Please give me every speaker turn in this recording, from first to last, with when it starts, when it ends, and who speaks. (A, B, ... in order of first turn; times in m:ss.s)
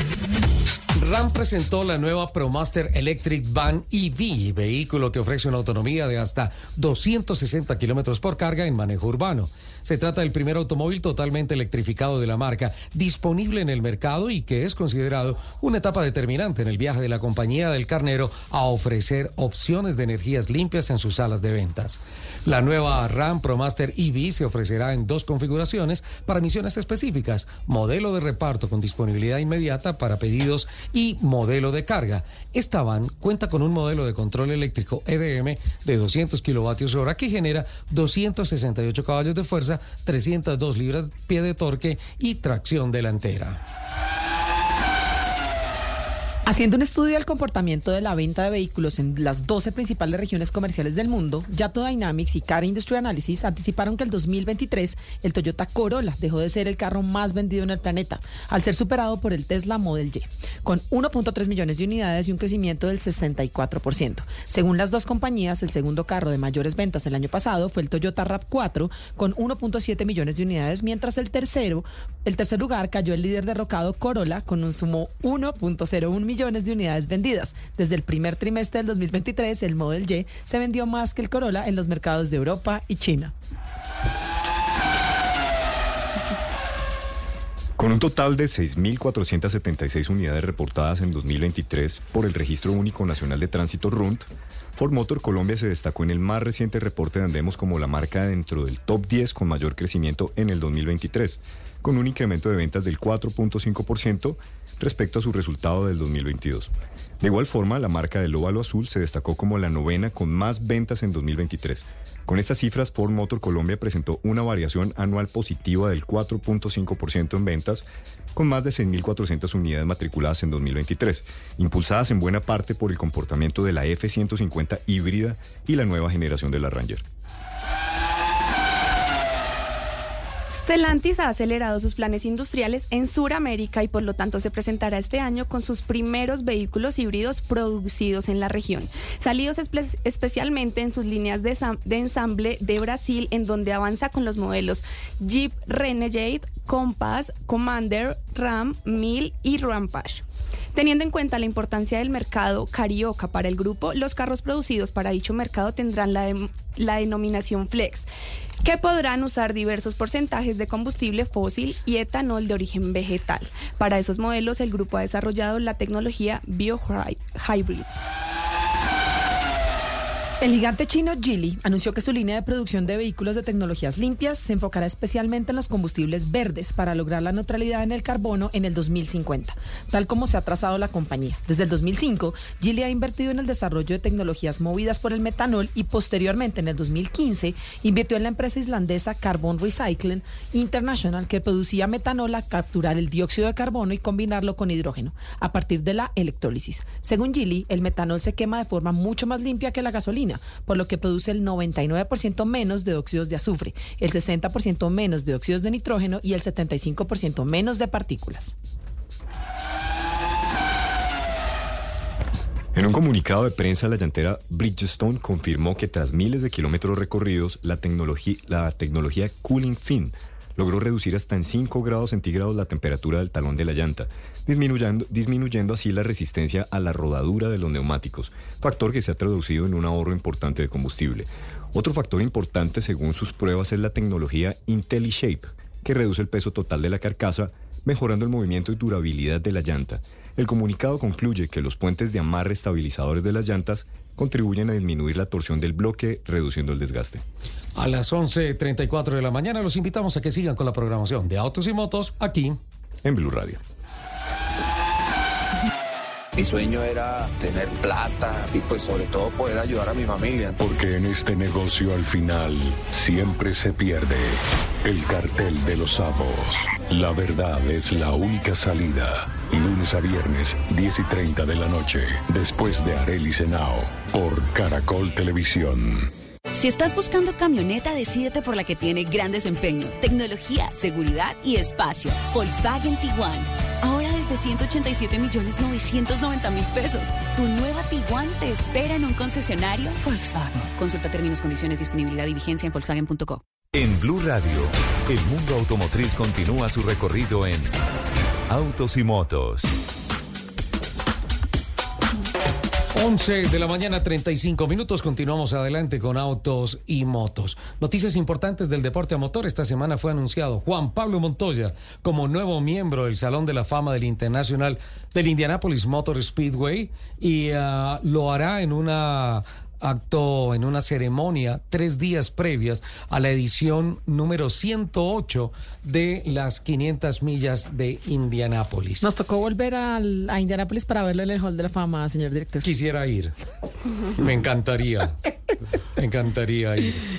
0:01.0-0:43.6 A
0:46.4-1:23.3 B
1:27.8-2:07.0 C
2:10.5-2:38.1 D
2:38.6-2:47.9 D
2:50.4-3:28.6 B
3:32.7-4:07.2 C
4:07.8-4:12.6 A
4:13.0-4:13.6 C
4:16.4-4:20.6 E
4:20.6-4:36.1 F
4:36.6-4:53.4 G
4:53.7-4:57.7 H
4:58.5-4:59.7 H
5:02.9-5:29.1 A
5:29.0-5:32.6 B
5:32.6-5:33.3 A
5:34.1-5:35.2 A
5:36.0-5:37.0 A